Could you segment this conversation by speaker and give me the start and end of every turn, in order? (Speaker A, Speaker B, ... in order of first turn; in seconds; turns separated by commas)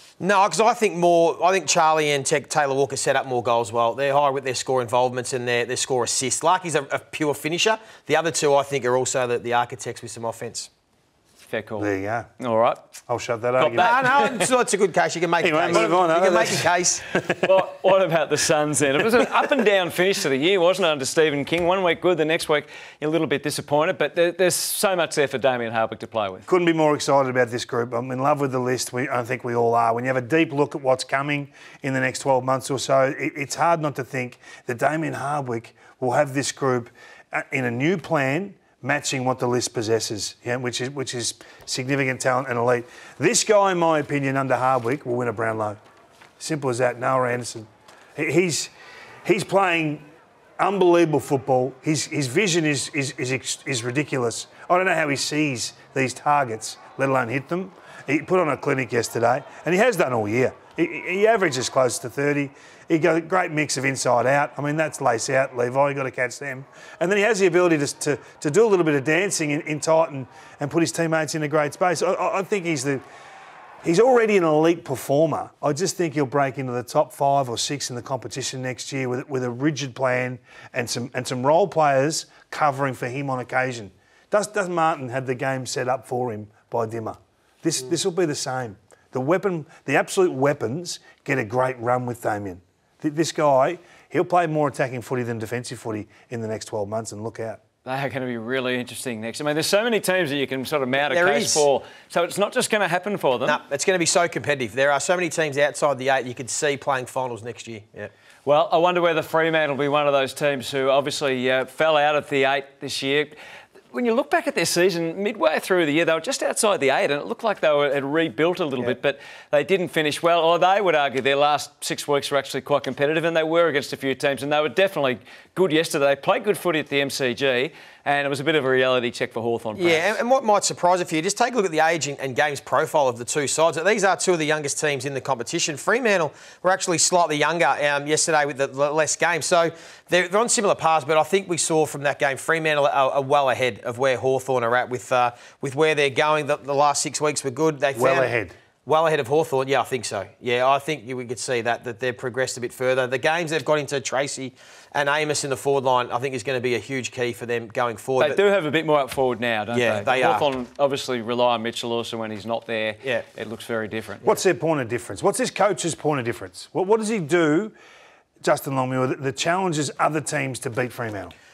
Speaker A: 0.2-10.7, Speaker B: 11.5-11.9, Speaker C: 11.8-12.3, Speaker B: 12.4-12.9, Speaker C: 13.1-14.2, Speaker B: 13.6-14.5, Speaker A: 13.8-17.1, Speaker C: 15.4-17.6, Speaker B: 17.3-26.5, Speaker C: 19.1-19.5, Speaker C: 26.5-45.8, Speaker C: 46.4-48.7, Speaker C: 49.2-50.0, Speaker C: 50.6-73.0, Speaker C: 73.8-97.6, Speaker B: 97.8-103.6, Speaker A: 101.0-101.7, Speaker A: 103.5-108.1, Speaker B: 108.5-113.4, Speaker B: 113.9-130.2, Speaker A: 129.8-148.3, Speaker C: 147.9-148.6, Speaker A: 148.9-158.4, Speaker B: 158.2-164.2, Speaker A: 159.7-160.5, Speaker C: 164.2-167.7, Speaker C: 168.4-171.3